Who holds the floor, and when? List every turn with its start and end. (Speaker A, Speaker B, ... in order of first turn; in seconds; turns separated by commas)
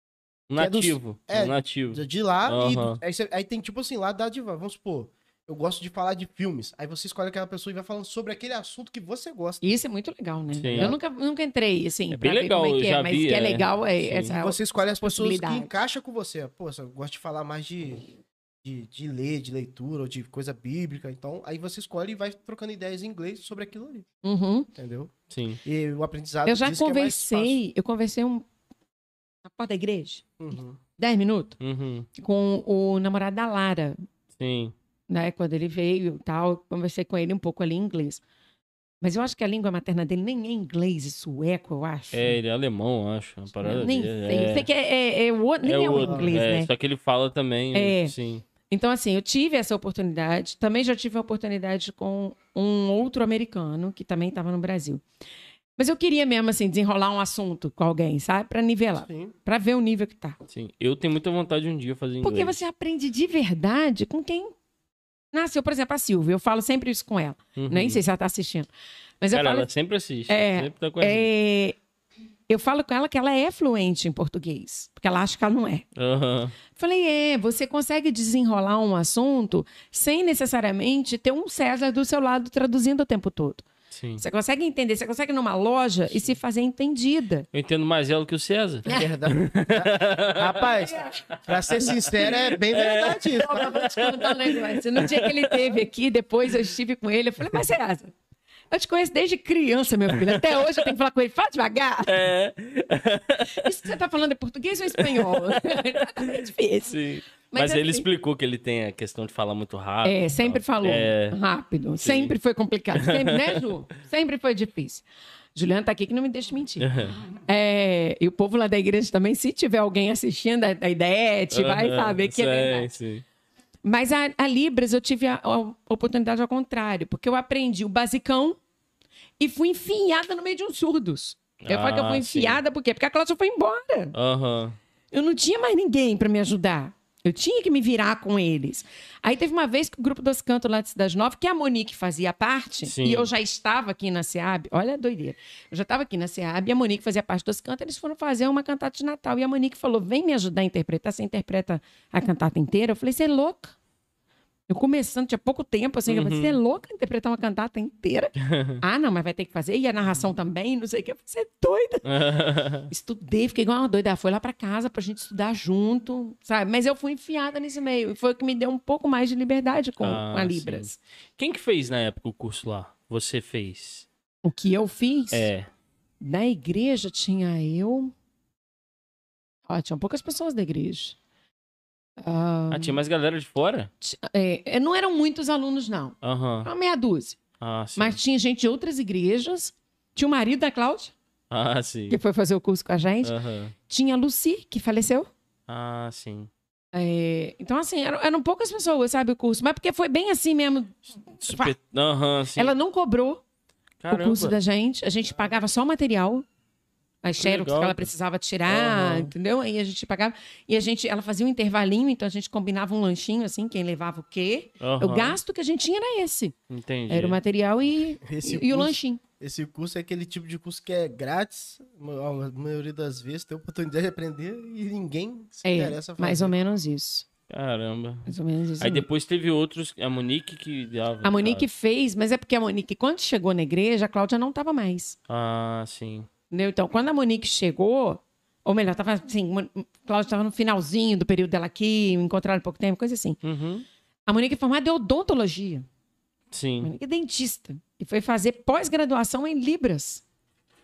Speaker A: 0.5-3.0, Speaker B: 0.6-9.6, Speaker C: 9.6-15.8, Speaker A: 10.5-10.9, Speaker B: 10.6-11.0, Speaker A: 12.1-14.3, Speaker B: 14.3-18.1, Speaker B: 18.6-24.1, Speaker C: 24.2-24.7, Speaker B: 24.8-25.1, Speaker A: 25.3-25.6, Speaker B: 25.6-27.6, Speaker C: 26.5-28.5, Speaker C: 29.4-30.2, Speaker B: 30.4-30.8, Speaker C: 31.0-31.6, Speaker A: 31.6-32.1, Speaker C: 32.1-34.0, Speaker A: 34.4-34.7, Speaker C: 35.1-38.2, Speaker C: 39.0-42.4, Speaker A: 42.1-44.7, Speaker C: 43.6-46.7, Speaker A: 45.6-48.4, Speaker B: 45.9-46.4, Speaker C: 47.7-48.1, Speaker C: 48.7-55.0, Speaker C: 55.8-60.4, Speaker B: 59.0-59.4, Speaker A: 60.5-62.6, Speaker C: 62.2-64.5, Speaker C: 65.3-68.7, Speaker A: 67.6-68.0, Speaker C: 69.2-69.7, Speaker A: 69.3-71.3, Speaker C: 70.3-71.8, Speaker C: 72.5-75.9, Speaker A: 76.0-76.6, Speaker C: 76.7-83.7, Speaker A: 83.9-84.2, Speaker C: 84.2-87.5, Speaker A: 87.5-95.8, Speaker B: 88.9-93.9, Speaker C: 93.3-98.1, Speaker C: 98.7-102.2, Speaker A: 100.1-100.9, Speaker A: 102.1-103.7, Speaker C: 103.5-108.1, Speaker A: 104.9-111.4, Speaker C: 110.0-116.9, Speaker A: 112.0-112.3, Speaker A: 113.0-113.6, Speaker A: 116.8-117.2, Speaker C: 117.5-122.9, Speaker A: 121.5-123.2, Speaker C: 123.8-128.6, Speaker C: 129.4-134.1, Speaker A: 131.6-132.6, Speaker A: 134.1-134.8, Speaker C: 135.1-153.8, Speaker A: 142.8-143.3, Speaker C: 154.7-162.1, Speaker A: 156.1-156.6, Speaker A: 158.4-158.8, Speaker A: 162.1-162.9, Speaker C: 162.9-171.0, Speaker A: 170.0-174.1, Speaker C: 174.4-175.5, Speaker A: 175.3-175.7, Speaker C: 176.2-178.1, Speaker C: 179.7-181.2, Speaker C: 182.2-183.0, Speaker A: 182.7-183.9, Speaker C: 184.0-187.4, Speaker A: 186.2-186.7, Speaker A: 187.6-188.2, Speaker C: 188.0-191.1, Speaker A: 191.5-192.2, Speaker C: 192.1-193.3, Speaker A: 193.2-193.7, Speaker C: 193.9-195.3, Speaker A: 195.7-196.5, Speaker C: 196.9-201.8, Speaker A: 201.4-202.7, Speaker C: 202.6-203.4, Speaker A: 204.0-204.6, Speaker C: 204.1-206.4, Speaker C: 207.2-216.6, Speaker A: 207.4-208.1, Speaker A: 208.7-209.3, Speaker A: 214.8-215.4, Speaker A: 216.7-217.4, Speaker C: 217.1-219.2, Speaker B: 218.2-226.5, Speaker C: 225.6-227.3, Speaker A: 227.5-231.7, Speaker C: 228.3-229.1, Speaker C: 231.2-235.2, Speaker A: 235.3-236.3, Speaker C: 236.5-243.4, Speaker A: 243.4-243.9, Speaker C: 244.3-245.9, Speaker A: 246.5-246.9, Speaker C: 246.8-250.2